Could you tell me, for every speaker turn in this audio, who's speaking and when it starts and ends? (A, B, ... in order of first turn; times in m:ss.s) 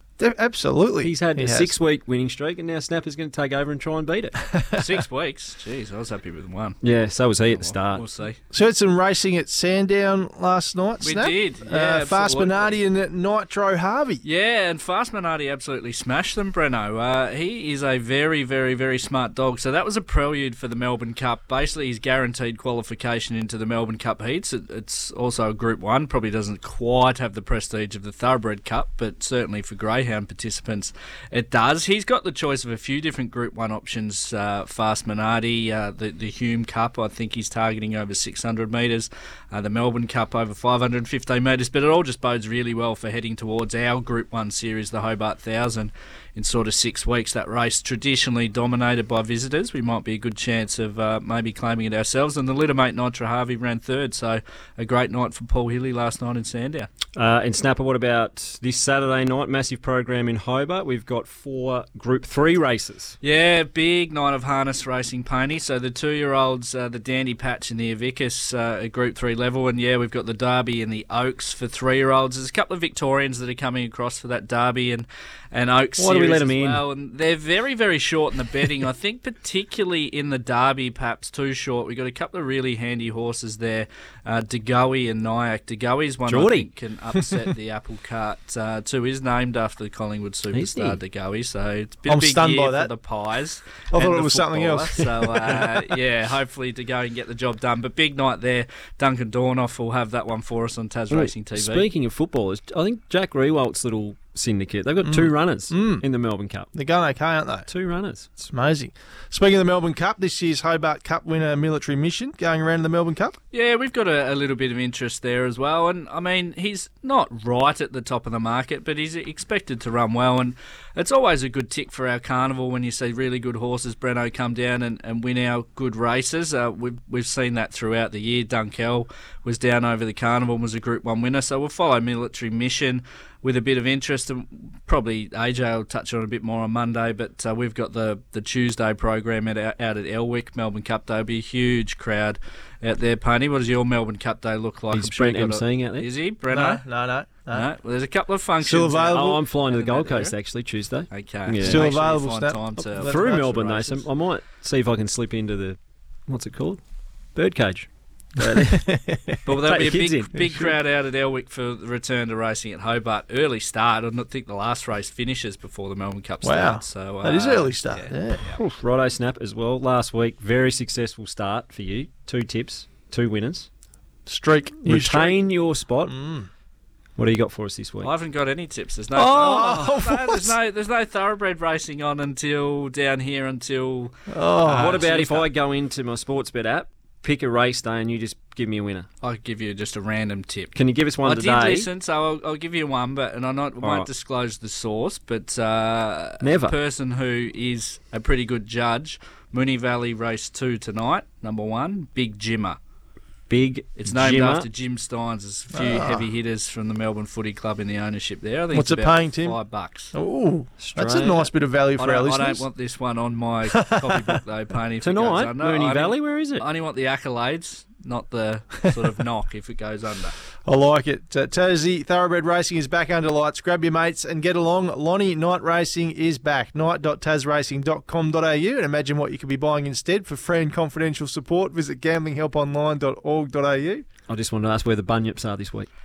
0:00.2-0:01.7 A
0:01.0-0:04.4 B
0:04.5-0:04.8 A
0:04.8-0:06.8 C
0:06.8-0:08.0 B
0:07.5-0:08.4 C
0:08.5-0:14.2 A
0:11.0-0:12.8 C
0:14.2-0:56.9 C
0:57.1-1:03.2 B
1:03.2-1:41.8 C
1:16.0-1:16.8 B
1:26.3-1:26.7 B
1:30.5-1:31.0 B
1:32.1-1:32.9 A
1:33.9-1:35.9 A
1:41.1-1:46.7 B
1:45.0-1:46.0 A
1:46.7-1:47.7 A
1:47.7-1:48.5 B
1:48.5-1:53.4 A
1:53.5-2:26.8 C
2:24.9-2:26.1 B
2:26.5-2:27.7 A
2:27.5-2:30.4 C
2:28.6-2:29.4 A
2:29.1-2:31.9 B
2:31.1-2:33.3 C
2:31.6-2:34.1 A
2:32.9-2:36.8 B
2:37.3-2:38.9 B
2:38.4-2:39.5 A
2:39.4-2:48.6 C
2:39.6-2:40.4 B
2:40.4-2:40.7 A
2:46.4-2:48.5 A
2:48.5-2:53.7 B
2:54.2-2:55.4 A
2:54.8-2:56.1 B
2:56.1-2:56.5 A
2:57.2-2:58.1 B
2:58.0-3:05.5 C
2:59.1-3:00.6 A
3:04.3-3:05.1 A
3:04.6-3:09.1 B
3:09.2-3:22.8 C
3:10.8-3:11.9 B
3:13.8-3:14.1 B
3:16.4-3:16.8 B
3:23.5-3:24.7 B
3:24.0-3:30.1 C
3:25.7-3:26.3 A
3:28.7-3:29.6 A
3:30.1-3:32.7 A
3:30.8-3:31.5 B
3:32.0-3:40.4 C
3:33.7-3:34.4 A
3:35.0-3:36.7 B
3:40.6-3:54.0 A
3:54.3-3:55.9 B